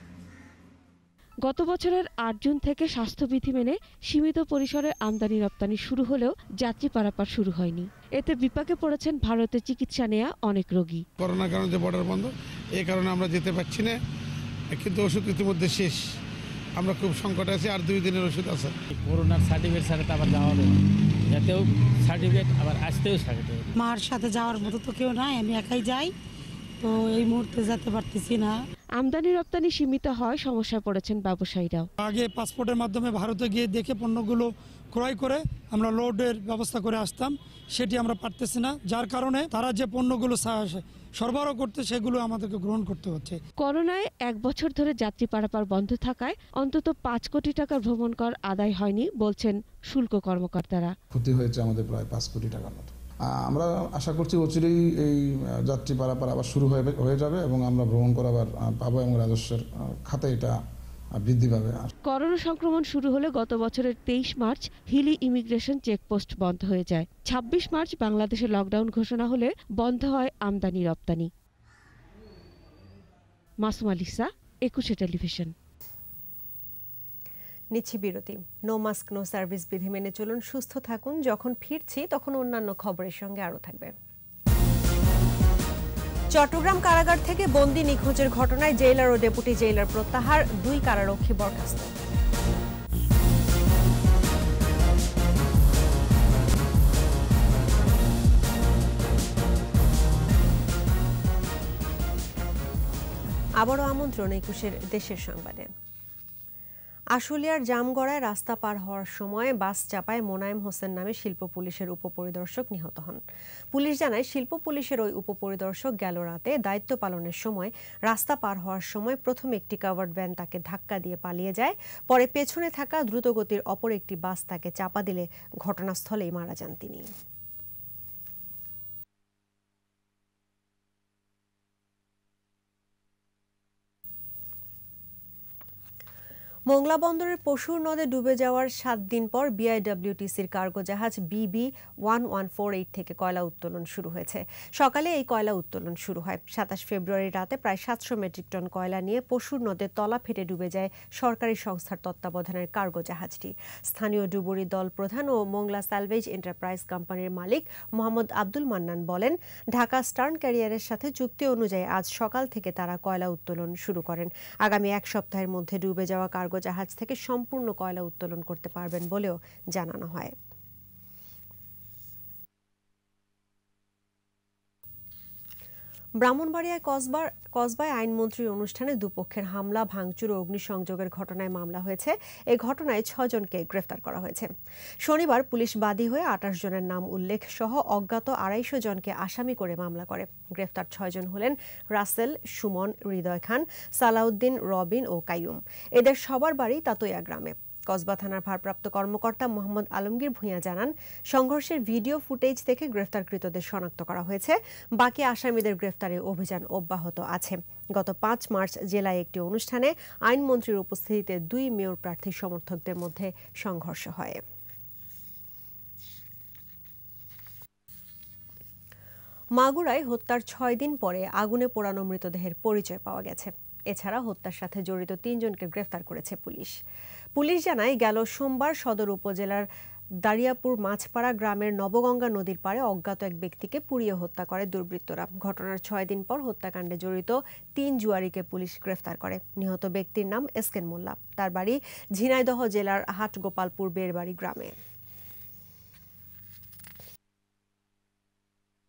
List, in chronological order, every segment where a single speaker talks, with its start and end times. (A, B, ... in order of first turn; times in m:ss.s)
0:01.5-0:11.0 A
0:11.2-0:14.0 B
0:14.7-0:16.0 B
0:16.8-0:18.7 B
0:18.9-0:23.7 C
0:23.7-0:26.1 D
0:26.8-0:28.6 D
0:29.0-0:31.9 A
0:32.0-0:43.4 E
0:43.6-0:50.9 A
0:51.1-0:52.9 F
0:53.5-1:00.5 F
1:01.2-1:01.9 F
1:02.1-1:11.3 A
1:13.6-1:15.5 A
1:17.7-1:23.9 G
1:26.3-1:31.9 G
1:43.6-1:45.7 G
1:47.2-1:53.2 G
1:53.7-2:07.1 G
2:16.7-2:50.4 G
2:56.2-3:04.5 G
3:05.0-3:34.4 G
3:39.6-3:46.8 G
3:47.4-3:49.7 G
3:50.2-4:04.8 G